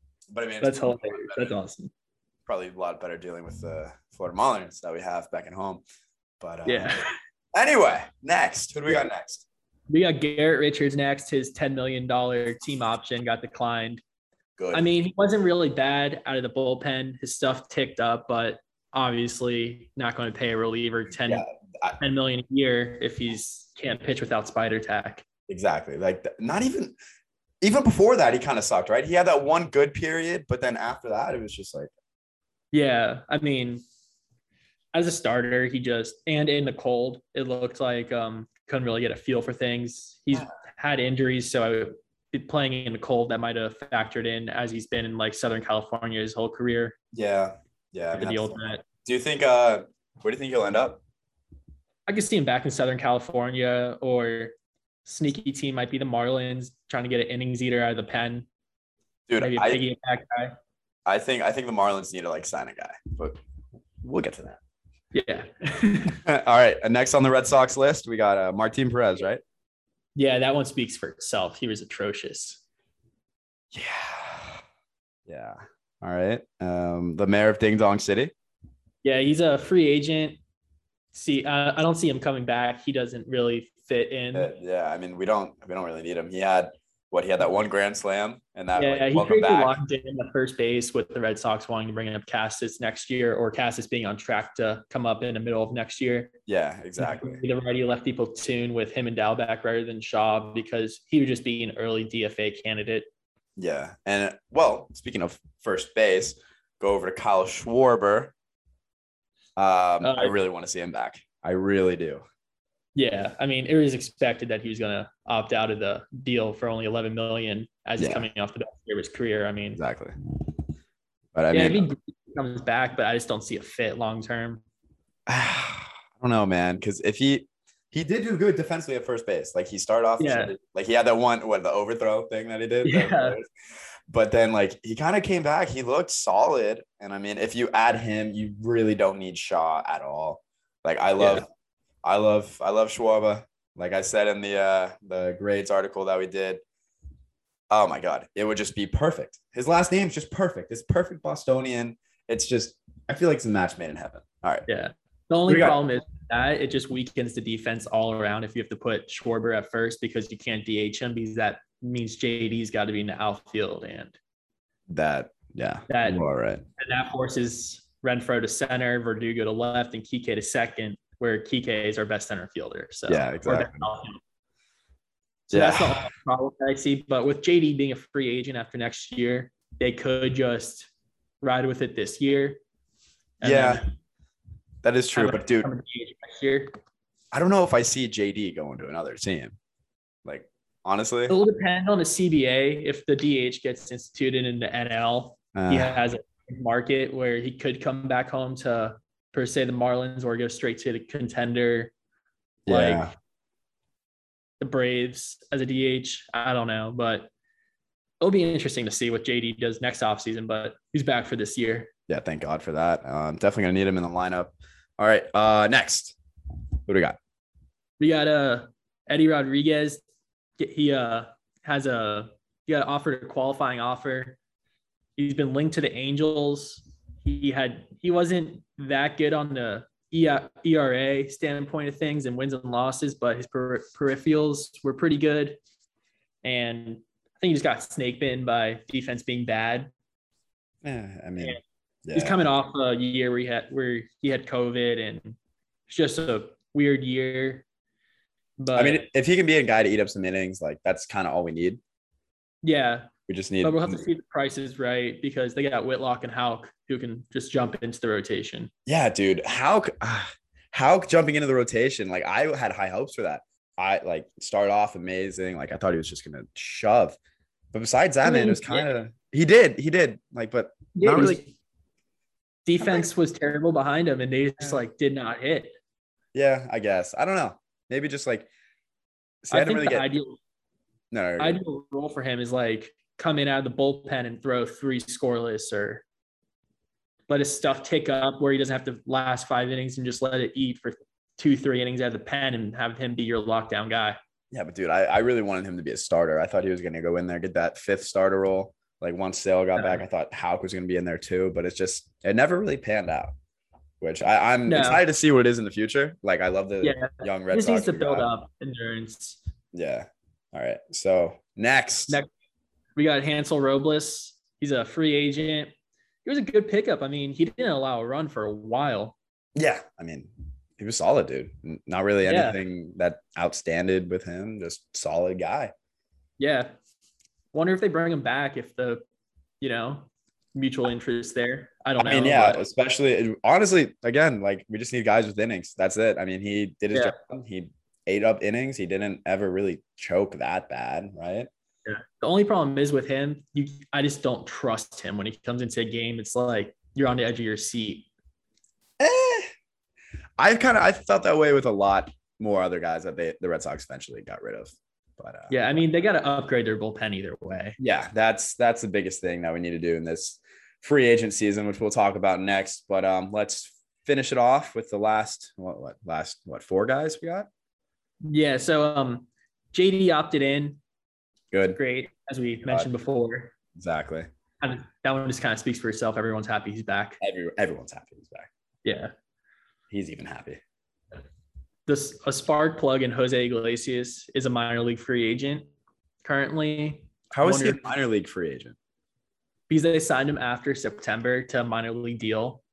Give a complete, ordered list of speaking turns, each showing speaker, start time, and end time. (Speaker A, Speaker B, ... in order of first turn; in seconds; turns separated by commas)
Speaker A: 0.3-1.5, Speaker B: 0.6-1.9, Speaker A: 2.5-5.8, Speaker A: 6.4-6.9, Speaker B: 6.7-7.1, Speaker A: 7.5-9.4, Speaker B: 9.9-14.0, Speaker A: 14.6-14.9, Speaker B: 14.7-21.4, Speaker A: 21.2-22.0, Speaker B: 22.0-25.2, Speaker A: 25.5-26.9, Speaker A: 27.6-31.9, Speaker B: 32.7-33.8, Speaker B: 34.9-47.0, Speaker A: 47.1-51.0, Speaker B: 48.1-48.8, Speaker B: 52.1-54.5, Speaker B: 55.0-58.5, Speaker A: 59.3-59.8, Speaker B: 59.4-60.5, Speaker A: 61.1-63.4, Speaker A: 64.0-64.6, Speaker B: 65.1-66.2, Speaker A: 66.2-69.4, Speaker B: 70.2-72.6, Speaker A: 73.7-74.6, Speaker A: 75.3-78.3, Speaker B: 79.0-80.4, Speaker B: 81.1-84.5, Speaker A: 84.3-89.8, Speaker B: 88.8-96.3, Speaker A: 96.5-97.4, Speaker B: 97.0-103.1, Speaker A: 103.6-108.3, Speaker A: 109.6-112.2, Speaker B: 110.0-110.3, Speaker B: 113.0-119.8, Speaker A: 118.0-118.3, Speaker A: 119.8-120.1, Speaker A: 121.3-121.9, Speaker B: 121.5-124.6, Speaker A: 125.3-133.5, Speaker B: 130.2-130.5, Speaker B: 132.8-133.4, Speaker A: 134.1-141.4, Speaker B: 141.2-141.4, Speaker A: 142.0-146.6, Speaker A: 147.7-154.7, Speaker B: 154.7-164.2, Speaker A: 155.5-155.8, Speaker A: 164.9-166.6, Speaker B: 165.9-166.2, Speaker B: 166.8-174.2, Speaker A: 173.1-173.9, Speaker B: 175.5-180.9, Speaker A: 175.5-176.1, Speaker B: 181.4-182.6, Speaker B: 183.4-183.8, Speaker A: 183.4-183.8, Speaker A: 184.8-185.7, Speaker B: 185.2-186.8, Speaker A: 187.3-189.6, Speaker A: 190.2-191.4, Speaker B: 191.3-201.9, Speaker A: 195.6-196.0, Speaker A: 202.7-203.1, Speaker B: 202.7-203.1, Speaker B: 204.6-207.3, Speaker B: 208.2-211.9, Speaker A: 212.1-216.2, Speaker A: 216.9-217.2, Speaker B: 218.0-220.0, Speaker B: 220.6-224.4, Speaker B: 225.2-235.6, Speaker B: 236.4-239.9, Speaker A: 240.8-242.4, Speaker B: 242.2-245.4, Speaker B: 245.9-247.7, Speaker B: 248.6-249.1, Speaker A: 248.8-251.8, Speaker B: 252.6-253.1, Speaker A: 253.3-254.1, Speaker B: 253.6-258.7, Speaker A: 258.9-267.2, Speaker A: 267.7-271.4, Speaker B: 268.2-268.9, Speaker B: 270.9-271.5, Speaker B: 272.7-275.8, Speaker A: 276.3-278.5, Speaker A: 279.4-280.1, Speaker B: 279.5-280.4, Speaker A: 281.1-281.6, Speaker B: 281.4-286.0, Speaker B: 287.3-294.2, Speaker A: 294.5-303.3, Speaker B: 299.8-300.0, Speaker A: 304.0-308.3, Speaker B: 304.7-305.0, Speaker B: 306.8-309.4, Speaker A: 309.7-312.2, Speaker B: 313.0-315.7, Speaker B: 316.2-319.2, Speaker A: 319.6-325.7, Speaker B: 322.3-322.6, Speaker B: 326.4-326.7, Speaker B: 327.5-329.0, Speaker B: 329.6-332.6, Speaker A: 332.0-341.5, Speaker B: 341.9-348.1, Speaker A: 349.0-349.5, Speaker A: 350.4-355.8, Speaker B: 355.5-357.8, Speaker A: 357.8-367.5, Speaker B: 368.2-370.8, Speaker A: 371.5-371.8, Speaker B: 371.8-373.5, Speaker A: 373.8-374.3, Speaker B: 374.6-377.2, Speaker A: 377.2-378.5, Speaker B: 378.9-379.1, Speaker A: 379.9-380.6, Speaker B: 381.9-385.7, Speaker B: 386.2-387.9, Speaker A: 387.3-388.8, Speaker B: 389.7-392.6